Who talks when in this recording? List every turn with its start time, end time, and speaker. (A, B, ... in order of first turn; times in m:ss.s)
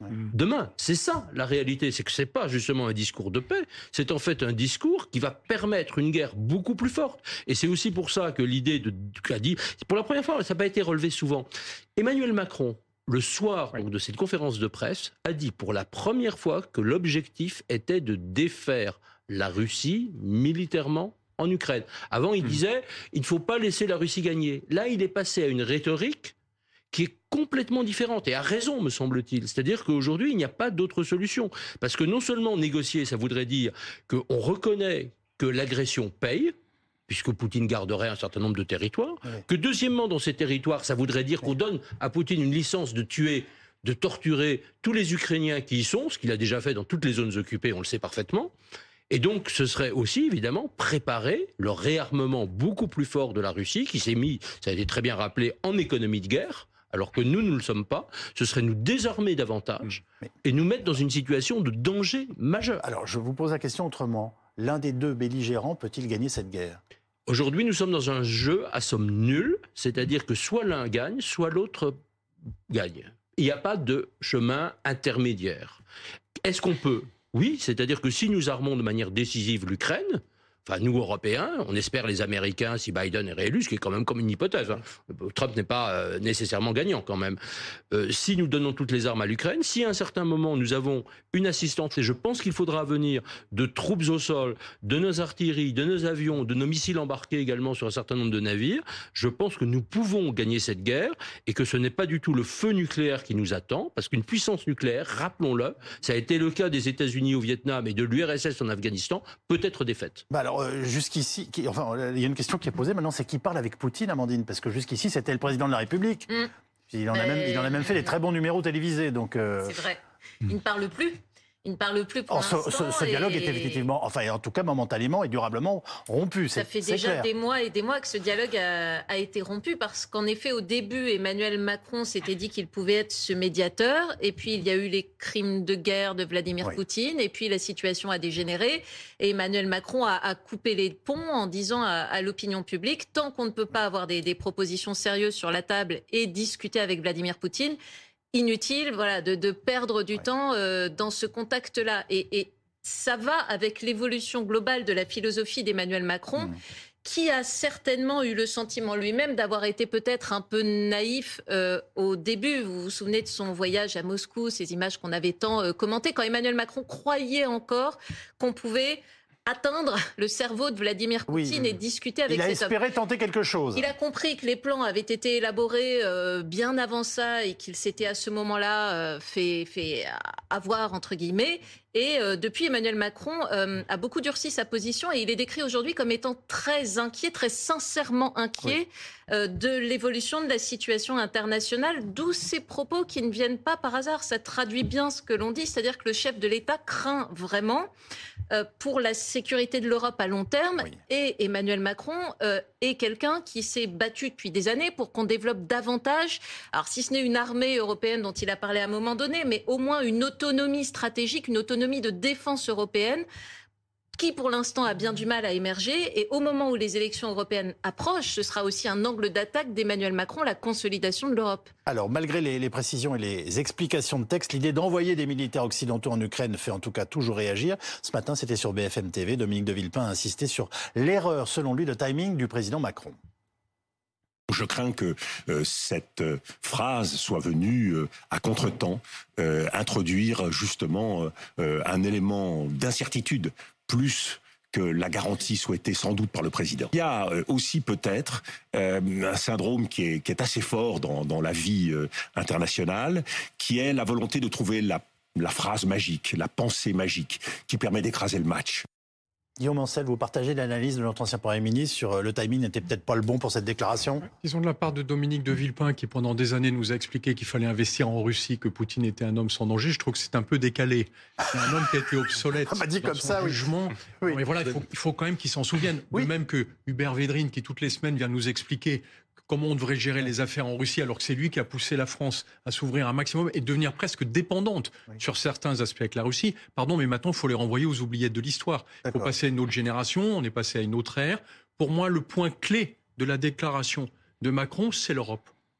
0:00.3-0:26.3 A
0:26.9-0:36.5 A
0:37.1-0:48.5 A
0:49.1-1:02.8 A
1:02.8-1:06.8 B
1:07.3-1:12.0 A
1:12.7-1:15.8 A
1:16.4-1:27.4 A
1:27.9-1:50.2 A
1:50.3-1:56.3 B
1:56.9-1:59.8 B
1:57.1-1:58.1 C
1:59.6-2:03.9 C
2:02.3-2:07.3 B
2:06.6-2:27.8 C
2:28.3-2:52.7 C
2:51.3-2:51.7 B
2:52.3-2:53.9 B
2:53.8-3:17.9 C
3:18.5-3:33.2 C
3:34.2-3:41.7 C
3:41.9-3:53.2 B
3:54.5-4:18.9 D
4:19.6-4:24.3 B
4:24.4-4:55.5 E
4:32.7-4:33.6 B
4:49.1-4:49.3 B